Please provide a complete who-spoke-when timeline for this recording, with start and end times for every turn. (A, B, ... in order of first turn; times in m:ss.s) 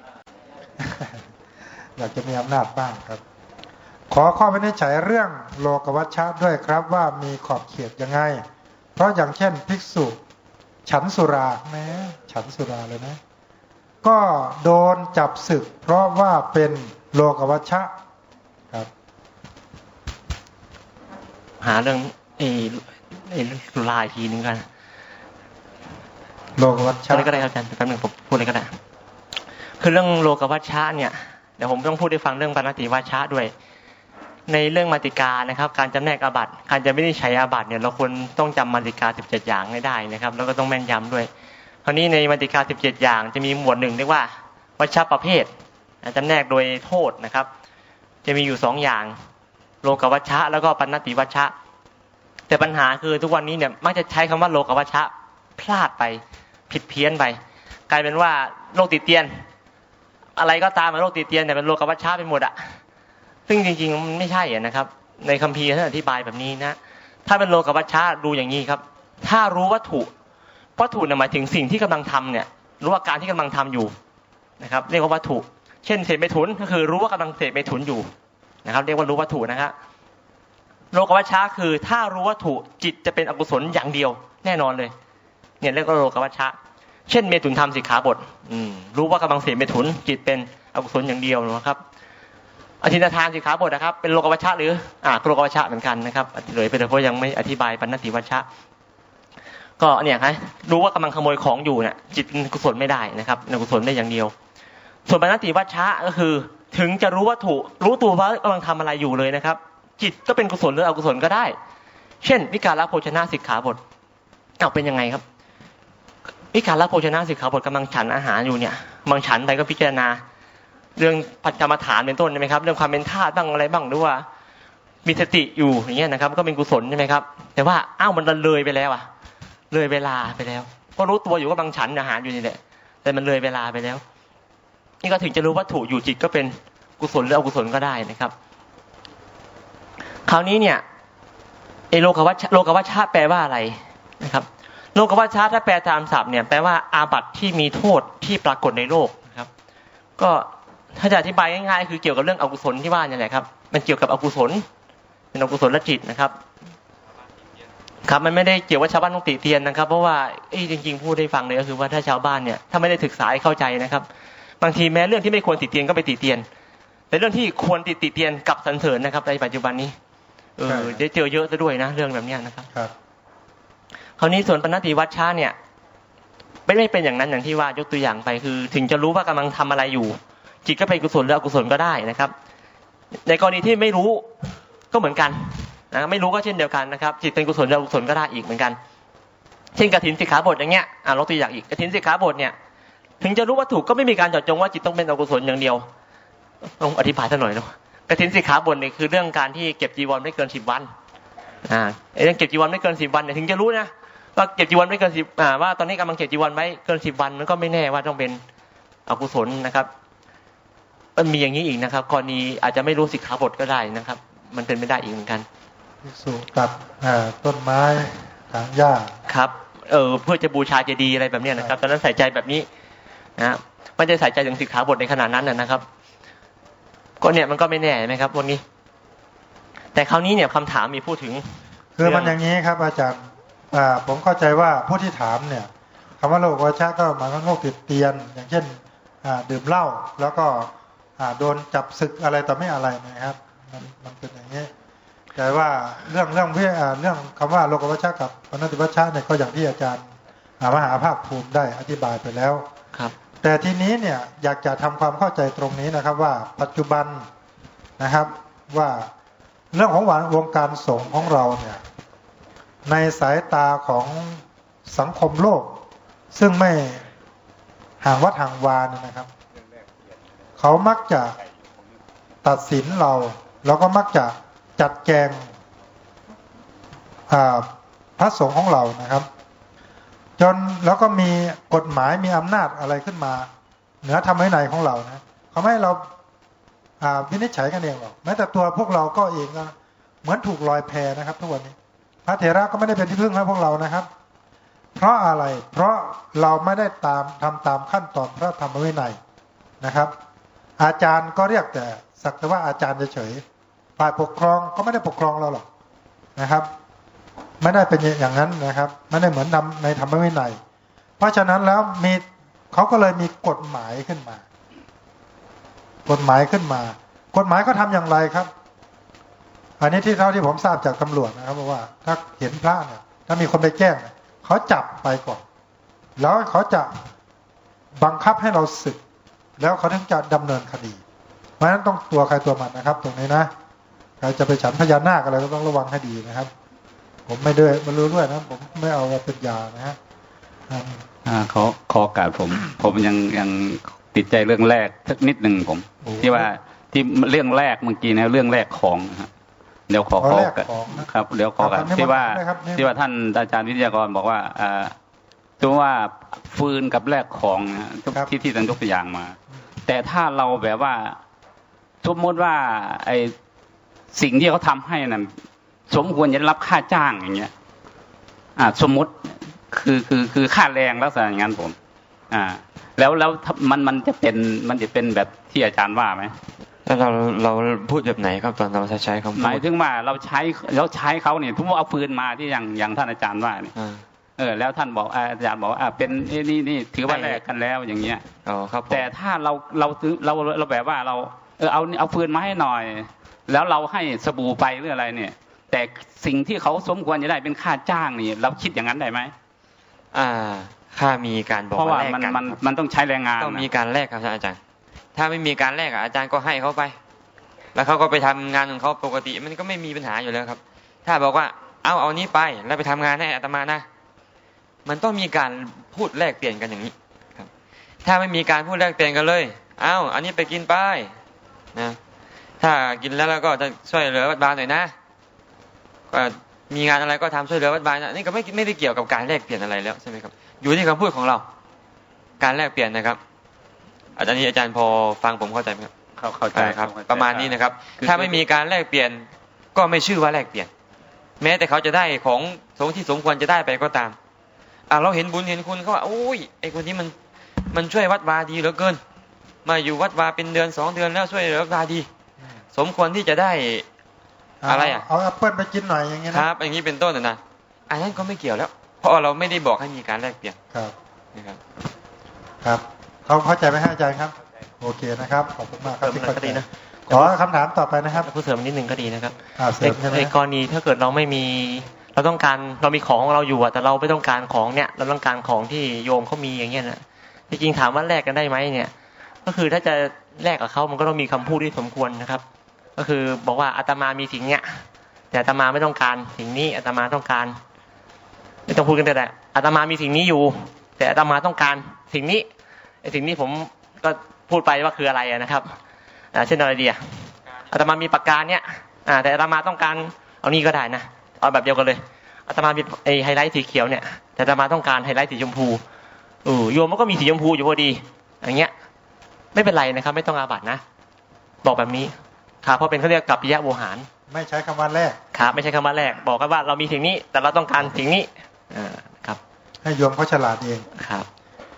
0:00.8-0:01.2 A
0:02.0-0:03.2 A
0:04.1-0:08.4 A
0:09.0-0:10.2 A
0:10.9-0:13.2 A
0:14.0-0:17.9 A
0:21.6-0:24.6 B
0:26.6-0:27.5 A
0:27.1-0:28.7 B
0:29.8-0:33.5 B
0:34.5-0:41.3 B
0:41.8-0:45.5 B
0:46.0-0:47.5 B
0:48.2-0:49.1 B
0:49.8-0:51.5 B
0:52.5-0:57.4 B
0:57.9-0:59.4 B
1:00.4-1:02.6 B
1:03.5-1:10.1 B
1:10.8-1:13.9 B
1:14.6-1:18.1 B
1:18.6-1:19.7 B
1:20.9-1:24.9 B
1:25.6-1:26.6 B
1:27.1-1:31.8 B
1:32.8-1:38.4 B
1:39.8-1:44.3 B
1:45.0-1:51.6 B
1:52.2-1:53.8 B
1:54.6-1:55.2 B
1:56.5-2:00.2 B
2:01.0-2:04.2 B
2:05.0-2:09.1 B
2:09.7-2:14.0 B
2:15.0-2:18.3 B
2:20.2-2:20.8 B
2:21.9-2:29.5 B
2:30.2-2:34.6 B
2:35.3-2:36.3 B
2:38.0-2:44.1 B
2:44.6-2:46.4 B
2:47.1-2:49.9 B
2:50.6-2:52.7 B
2:50.7-2:51.0 A
2:54.2-2:55.6 B
2:56.7-3:02.3 B
3:03.2-3:04.3 B
3:04.9-3:08.8 B
3:09.8-3:12.5 B
3:13.2-3:15.8 B
3:16.8-3:20.9 B
3:21.6-3:28.4 B
3:29.1-3:29.9 B
3:31.2-3:35.4 B
3:36.0-3:39.1 A
3:39.3-3:42.7 B
3:43.4-3:45.8 B
3:47.2-3:48.6 B
3:49.9-3:52.4 B
3:52.0-4:04.7 A
4:05.3-4:10.1 A
4:10.6-4:12.6 A
4:13.4-4:17.3 A
4:18.0-4:19.1 A
4:19.7-4:21.8 A
4:22.9-4:27.0 A
4:28.0-4:29.3 A
4:30.6-4:31.4 A
4:32.4-4:35.5 A
4:37.3-4:39.3 A
4:40.4-4:43.5 A
4:44.0-4:46.1 A
4:47.0-4:51.8 A
4:52.3-4:54.1 A
4:55.0-4:59.2 A
4:59.8-5:00.1 A
5:00.8-5:03.4 A
5:04.0-5:05.7 A
5:06.4-5:06.7 A
5:07.6-5:10.6 A
5:11.2-5:14.4 A
5:16.1-5:18.5 A
5:19.8-5:25.4 A
5:26.2-5:27.0 A
5:28.0-5:29.0 A
5:29.6-5:31.0 A
5:31.6-5:33.5 A
5:34.2-5:36.5 A
5:37.3-5:40.0 A
5:40.7-5:41.0 A
5:41.2-5:49.3 C
5:46.0-5:46.5 A
5:49.9-5:55.0 C
5:50.2-5:52.9 A
5:55.6-6:01.2 C
6:02.0-6:03.3 C
6:04.1-6:05.3 C
6:05.9-6:07.5 C
6:08.6-6:11.8 C
6:12.3-6:16.3 C
6:16.9-6:19.6 D
6:19.4-6:23.7 C
6:23.8-6:24.0 D
6:24.4-6:28.2 C
6:27.1-6:27.4 D
6:28.4-6:29.1 D
6:28.9-6:39.3 C
6:40.1-6:42.6 D
6:41.7-6:43.7 C
6:43.4-6:44.6 D
6:45.2-6:47.0 D
6:47.8-6:53.9 D
6:54.9-6:57.5 D
6:58.0-7:01.1 D
7:02.6-7:04.9 D
7:06.1-7:11.4 D
7:12.4-7:13.2 D
7:14.2-7:15.9 D
7:16.2-7:18.4 C
7:16.5-7:20.7 D
7:21.4-7:24.2 D
7:24.9-7:27.1 D
7:27.7-7:29.0 D
7:29.6-7:32.1 D
7:32.7-7:33.8 D
7:34.6-7:36.5 A
7:34.7-7:35.1 D
7:36.3-7:40.6 D
7:42.6-7:48.3 A
7:45.9-7:47.3 B
7:48.1-7:58.9 B
7:49.6-7:50.3 A
7:59.4-8:02.4 B
8:03.0-8:04.6 B
8:05.3-8:07.6 B
8:08.7-8:12.4 B
8:13.0-8:15.8 B
8:16.3-8:17.0 B
8:17.7-8:25.8 B
8:26.4-8:28.7 B
8:29.5-8:30.8 B
8:31.6-8:34.1 B
8:34.3-8:35.2 A
8:35.3-8:39.4 B
8:39.8-8:40.9 A
8:41.0-8:41.3 B